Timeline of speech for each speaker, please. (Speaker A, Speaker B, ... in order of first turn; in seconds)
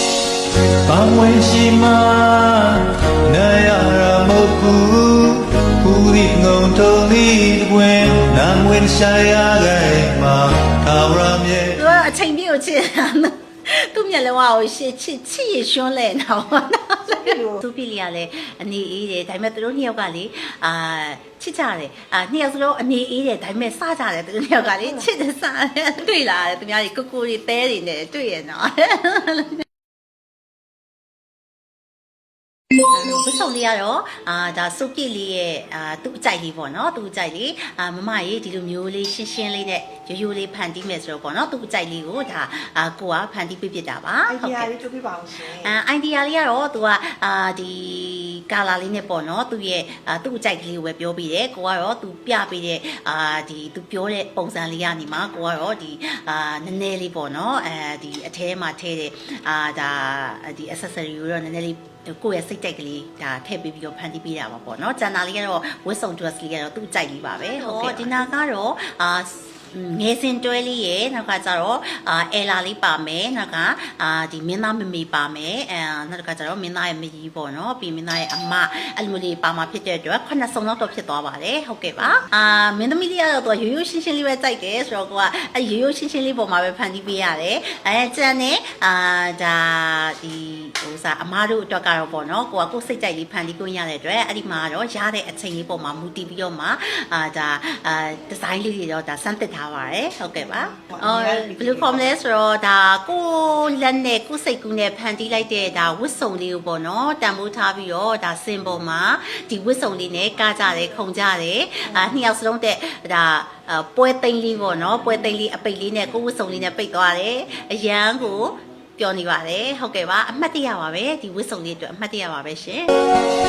Speaker A: 0.9-11.8
Speaker B: 11.8-29.6, 32.9-44.7, 45.6-122.9
Speaker C: 17.1-17.6, 24.8-25.0, 44.3-45.8, 82.0-82.2, 100.6-102.1